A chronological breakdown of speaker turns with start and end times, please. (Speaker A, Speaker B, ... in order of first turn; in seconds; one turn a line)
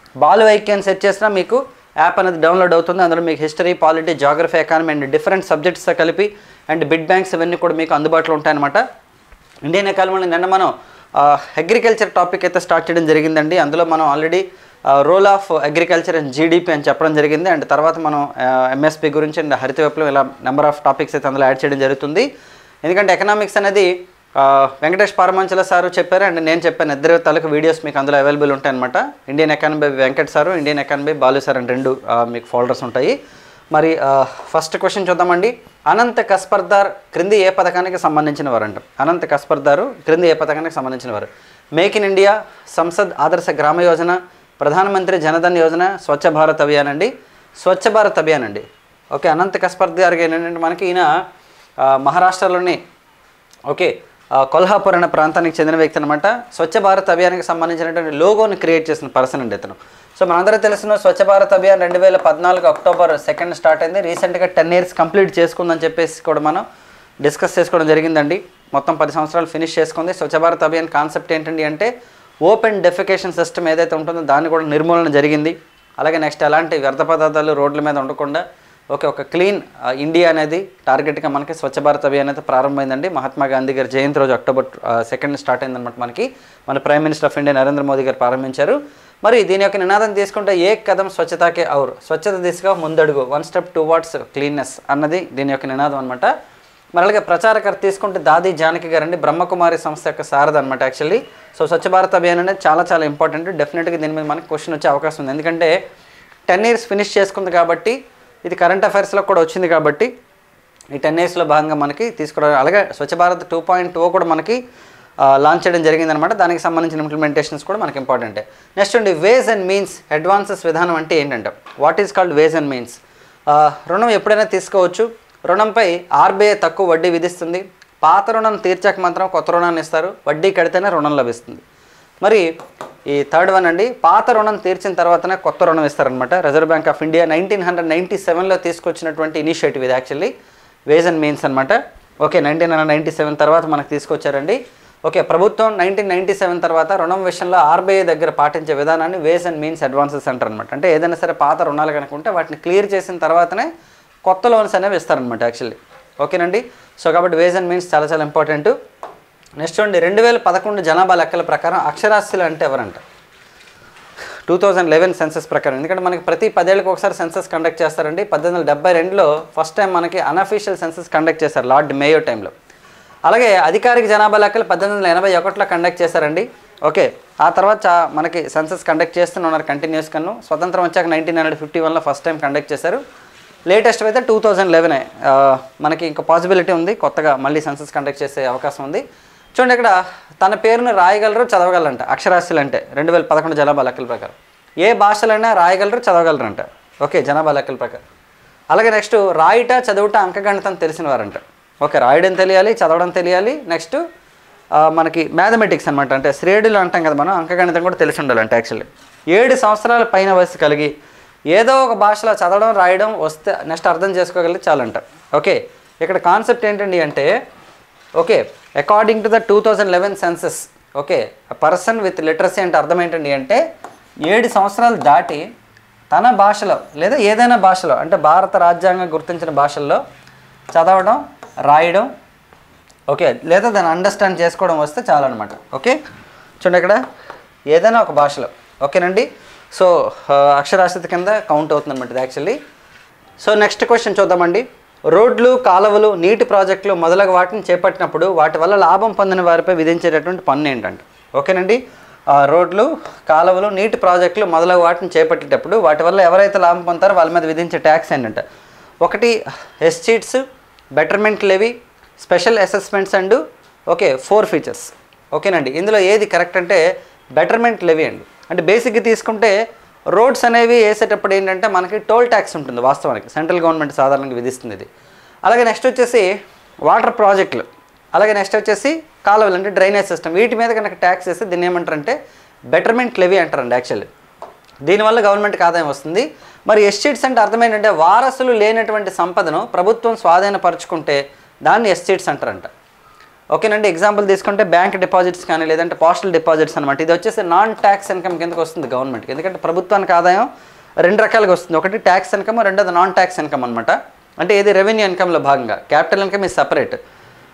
Speaker A: 0.2-8.8
Speaker A: 9.6-22.3
Speaker A: 22.8-33.1
Speaker A: 33.7-51.1
Speaker A: 51.8-52.8
Speaker A: 53.7-66.6
Speaker A: 67.2-71.9
Speaker A: 72.4-96.3
Speaker A: 96.9-105.7
Speaker A: 106.5-110.1
Speaker A: 110.9-114.6
Speaker A: 115.2-131.6
Speaker A: 132.2-132.5
Speaker A: 133.1-140.3
Speaker A: 140.9-153.7
Speaker A: 154.2-158.7
Speaker A: 159.6-163.0
Speaker A: 164.5-172.5
Speaker A: 173.2-183.0
Speaker A: 183.7-189.0
Speaker A: 189.5-198.0
Speaker A: 198.7-204.0
Speaker A: 204.8-210.9
Speaker A: 211.5-217.3
Speaker A: 218.2-223.6
Speaker A: 224.2-225.4
Speaker A: 226.1-230.0
Speaker A: 230.7-232.1
Speaker A: 233.1-236.0
Speaker A: 236.6-237.0
Speaker A: 237.7-242.6
Speaker A: 243.4-251.8
Speaker A: 252.3-258.4
Speaker A: 259.0-260.4
Speaker A: 260.9-266.8
Speaker A: 267.3-269.5
Speaker A: 270.1-274.9
Speaker A: 275.4-276.3
Speaker A: 276.9-282.2
Speaker A: 282.7-284.1
Speaker A: 284.8-292.7
Speaker A: 293.5-300.5
Speaker A: 301.0-307.0